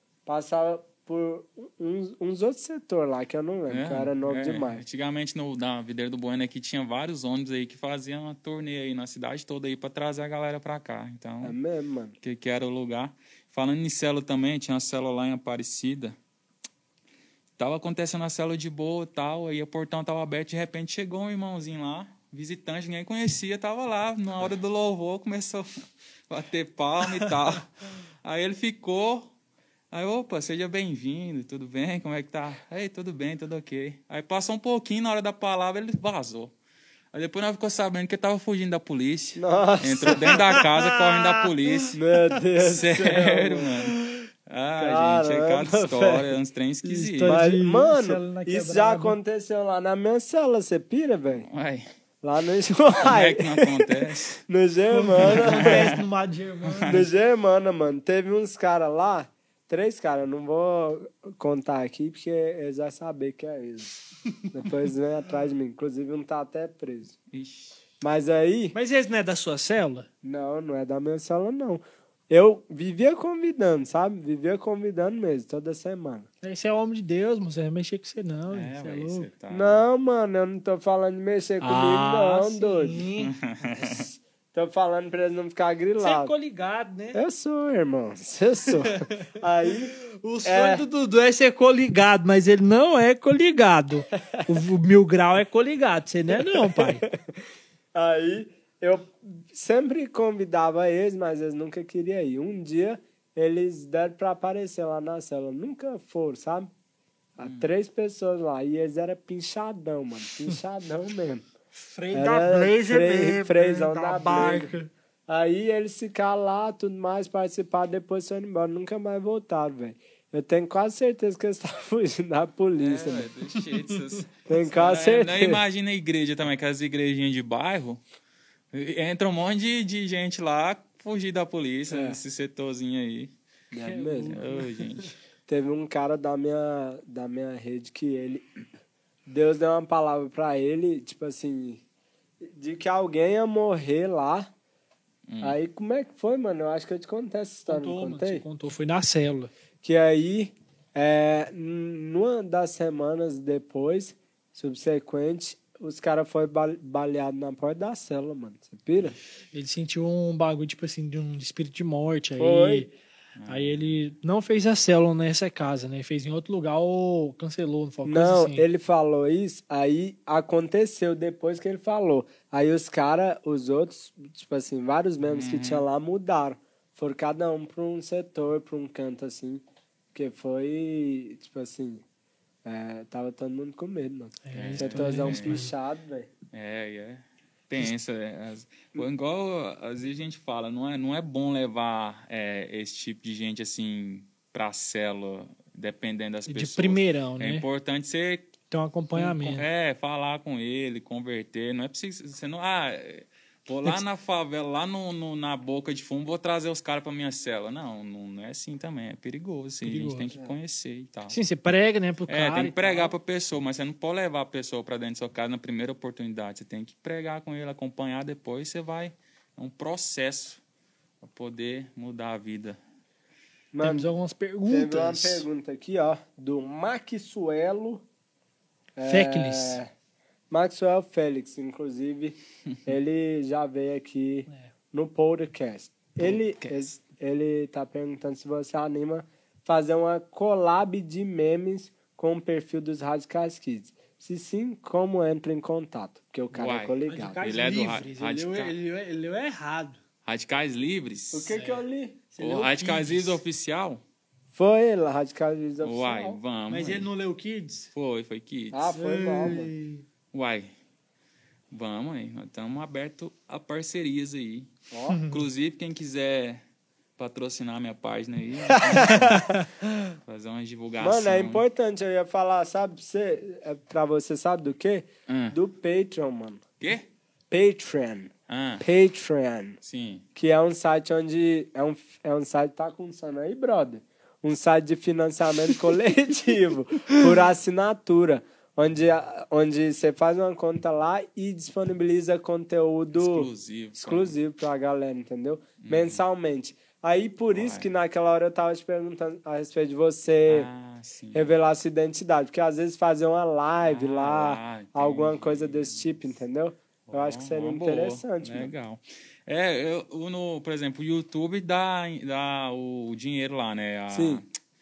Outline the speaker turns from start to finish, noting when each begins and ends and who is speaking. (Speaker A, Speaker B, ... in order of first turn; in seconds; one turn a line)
Speaker A: 0.2-4.8
Speaker B: 3.7-11.6
Speaker A: 11.4-12.2
Speaker B: 12.2-16.1
Speaker B: 17.6-25.7
Speaker B: 26.3-27.7
Speaker B: 28.2-29.3
Speaker B: 29.9-36.5
Speaker B: 37.1-42.0
Speaker A: 39.4-40.5
Speaker C: 40.4-41.9
Speaker A: 41.9-43.7
Speaker B: 42.6-47.4
Speaker A: 44.8-46.3
Speaker C: 46.8-49.2
Speaker A: 47.2-51.5
Speaker B: 51.5-51.9
Speaker A: 52.2-53.9
Speaker B: 53.0-54.4
Speaker A: 54.5-55.9
Speaker C: 55.0-57.0
Speaker B: 55.2-56.0
Speaker B: 56.6-57.1
Speaker A: 56.9-63.9
Speaker A: 64.5-67.1
Speaker B: 67.3-67.8
Speaker A: 68.0-68.8
Speaker C: 68.7-70.1
Speaker A: 70.2-76.3
Speaker C: 76.4-79.3
Speaker B: 78.5-79.8
Speaker A: 79.5-83.0
Speaker C: 81.6-83.3
Speaker B: 83.2-84.1
Speaker A: 83.8-86.3
Speaker C: 86.0-87.2
Speaker A: 87.1-90.8
Speaker C: 90.1-97.0
Speaker A: 96.5-97.1
Speaker A: 97.9-106.7
Speaker A: 107.4-111.4
Speaker B: 107.4-107.7
Speaker C: 111.9-114.9
Speaker A: 112.1-114.7
Speaker A: 115.3-123.2
Speaker B: 122.8-128.0
Speaker C: 123.5-124.0
Speaker A: 124.5-125.6
Speaker B: 128.7-133.3
Speaker A: 131.9-132.2
Speaker A: 133.7-134.4
Speaker C: 133.8-135.1
Speaker B: 134.3-135.1
Speaker A: 135.5-138.4
Speaker A: 139.3-141.8
Speaker A: 142.4-144.5
Speaker B: 145.3-145.6
Speaker A: 145.4-148.4
Speaker C: 147.7-149.5
Speaker A: 149.8-159.2
Speaker C: 159.5-162.9
Speaker A: 162.4-162.9
Speaker B: 163.4-163.9
Speaker C: 163.5-168.7
Speaker A: 168.0-179.6
Speaker B: 175.2-175.8
Speaker A: 180.1-182.0
Speaker A: 182.6-186.3
Speaker C: 184.4-185.7
Speaker B: 184.5-185.6
Speaker B: 186.5-198.5
Speaker C: 196.5-197.6
Speaker C: 198.7-199.7
Speaker B: 199.2-211.4
Speaker C: 209.8-210.3
Speaker C: 211.3-213.1
Speaker B: 212.3-220.6
Speaker B: 221.2-222.8
Speaker A: 223.7-224.1
Speaker C: 223.8-225.4
Speaker A: 224.7-228.0
Speaker A: 229.0-229.9
Speaker C: 229.1-229.8
Speaker A: 230.5-247.4
Speaker B: 236.2-236.9
Speaker B: 246.5-248.7
Speaker C: 247.1-250.0
Speaker B: 250.2-251.5
Speaker A: 251.3-252.2
Speaker C: 251.5-253.4
Speaker B: 252.4-254.0
Speaker A: 254.5-256.4
Speaker B: 255.8-257.1
Speaker C: 256.7-257.9
Speaker B: 257.9-258.9
Speaker A: 258.7-259.7
Speaker C: 258.9-260.0
Speaker B: 260.3-260.7
Speaker B: 261.7-264.7
Speaker A: 264.9-265.2
Speaker C: 265.1-265.4
Speaker B: 265.3-266.6
Speaker B: 267.2-269.5
Speaker C: 268.9-269.6
Speaker B: 270.2-271.6
Speaker A: 271.0-276.6
Speaker B: 275.3-275.5
Speaker B: 276.8-277.1
Speaker A: 277.5-279.8
Speaker B: 278.5-278.8
Speaker B: 279.8-280.2
Speaker A: 280.3-300.7
Speaker B: 293.1-294.3
Speaker B: 295.8-296.2
Speaker B: 297.5-297.9
Speaker B: 300.5-301.6
Speaker A: 301.3-308.7
Speaker B: 303.8-306.1
Speaker B: 307.1-314.4
Speaker A: 314.1-314.4